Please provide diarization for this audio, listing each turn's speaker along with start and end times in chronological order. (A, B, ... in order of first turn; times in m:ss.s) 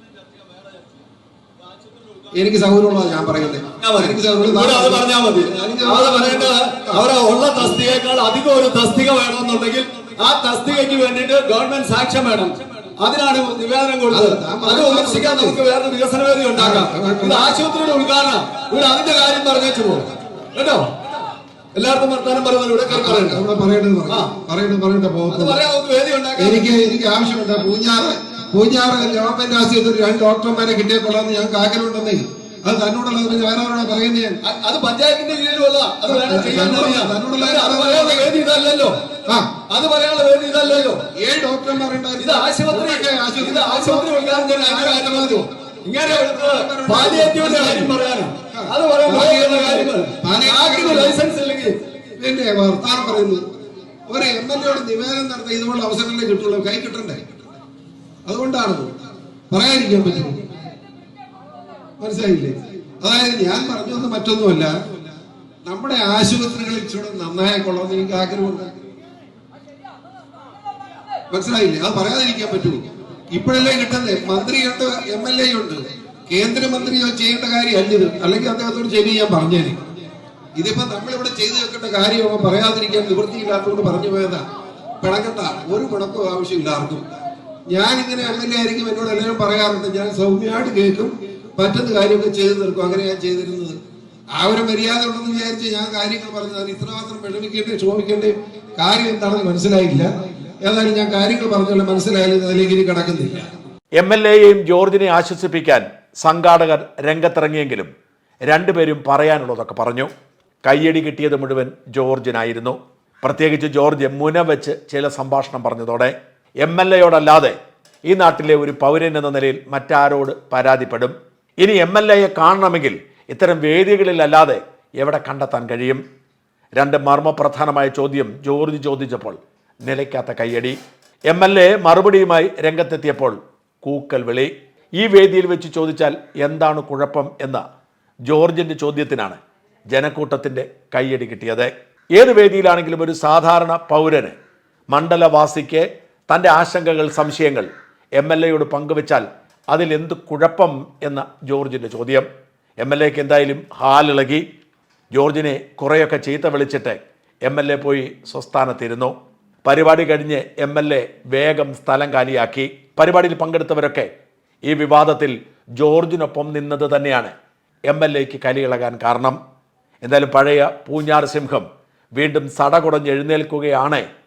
0:02.3-0:07.0 A
0:03.8-0:21.1 B
0:14.1-0:15.6 A
0:16.5-0:17.6 A
0:21.7-0:23.4 B
0:22.9-0:25.6 A
0:25.3-0:26.7 B
0:26.4-0:34.4 A
0:34.4-0:41.0 B
0:36.1-0:38.4 A
0:39.2-0:39.6 A
0:41.0-0:45.5 A
0:42.2-0:51.8 B
0:46.0-0:48.0 A
0:48.6-0:51.2 A
0:52.2-0:53.5 A
0:54.1-0:57.3 A
0:58.2-0:59.0 A
0:59.5-1:00.4 A
1:02.0-1:04.9 A
1:05.6-1:08.8 A
1:11.3-1:19.8 A
1:20.5-1:24.4 A
1:25.0-1:27.0 A
1:27.7-1:33.8 A
1:34.3-1:43.5 A
1:44.0-1:47.9 C
1:48.5-1:50.1 C
1:50.6-1:57.6 C
1:58.1-2:06.0 C
2:06.8-2:10.8 C
2:11.3-2:17.6 C
2:18.3-2:19.4 C
2:19.9-2:24.3 C
2:24.9-2:32.3 C
2:32.8-2:34.4 C
2:35.1-2:44.1 C
2:44.6-2:47.3 C
2:47.9-2:49.4 C
2:50.0-2:54.0 C